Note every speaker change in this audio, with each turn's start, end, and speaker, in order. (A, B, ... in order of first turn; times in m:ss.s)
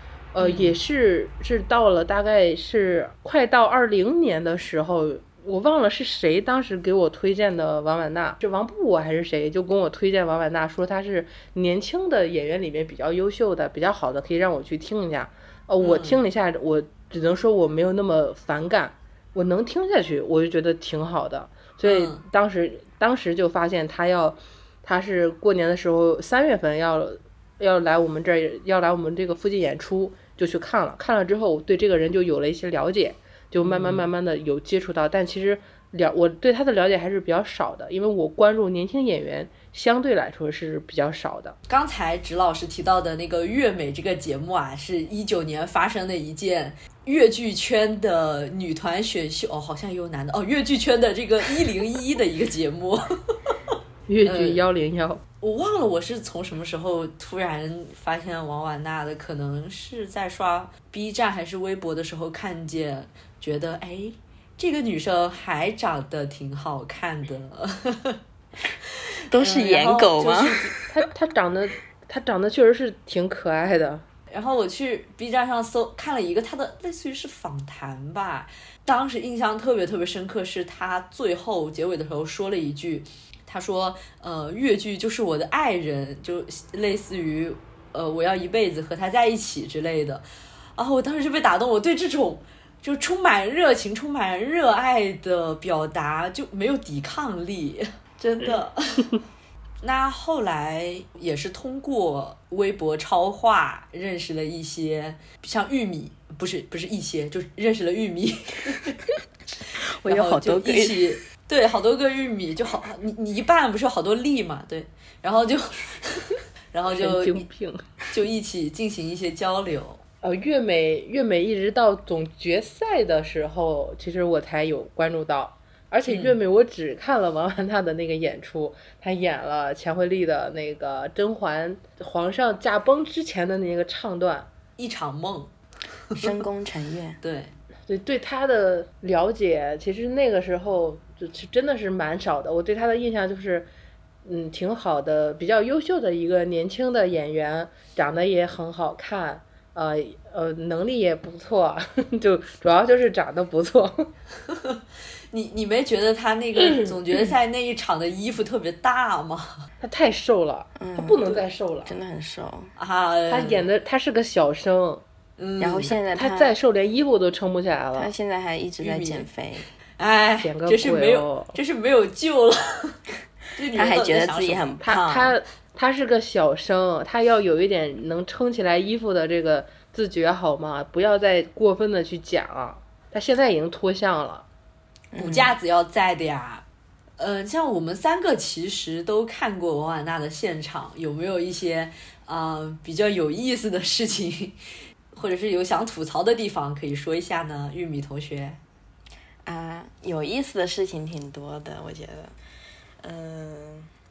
0:00.3-0:41.6 A
0:00.4-0:00.8 B
0:15.8-0:16.2 B
0:21.8-0:22.2 B
0:33.6-0:34.0 B
0:41.7-0:53.6 B
0:54.1-0:55.2 A
0:54.2-0:54.6 B
0:55.4-1:08.2 B
1:09.3-1:10.9 C
1:09.4-1:10.7 B
1:10.9-1:14.0 A
1:14.3-1:30.2 B
1:30.8-1:39.1 B
1:39.8-1:49.0 B
1:50.0-1:51.0 C
1:50.0-1:57.4 B
1:57.0-1:57.8 A
1:58.1-2:00.0 B
2:00.2-2:14.5 A
2:06.1-2:06.4 B
2:14.8-2:15.5 B
2:16.2-2:17.2 C
2:17.2-2:17.5 B
2:17.9-2:23.7 A
2:24.2-2:34.1 A
2:34.5-2:34.8 B
2:35.3-2:39.7 B
2:39.8-2:41.9 A
2:40.8-2:42.7 C
2:42.8-2:43.6 B
2:43.3-2:45.0 A
2:45.4-2:45.9 B
2:45.6-2:46.6 C
2:46.2-2:48.1 A
2:48.0-2:49.7 C
2:48.8-2:49.3 B
2:50.0-2:53.0 B
2:50.4-2:51.6 A
2:53.6-2:54.6 B
2:53.7-2:55.4 C
2:54.8-3:04.4 A
3:05.1-3:05.6 C
3:05.2-3:06.6 B
3:07.2-3:14.6 B
3:15.1-3:18.6 B
3:19.5-3:22.4 C
3:23.0-3:23.9 C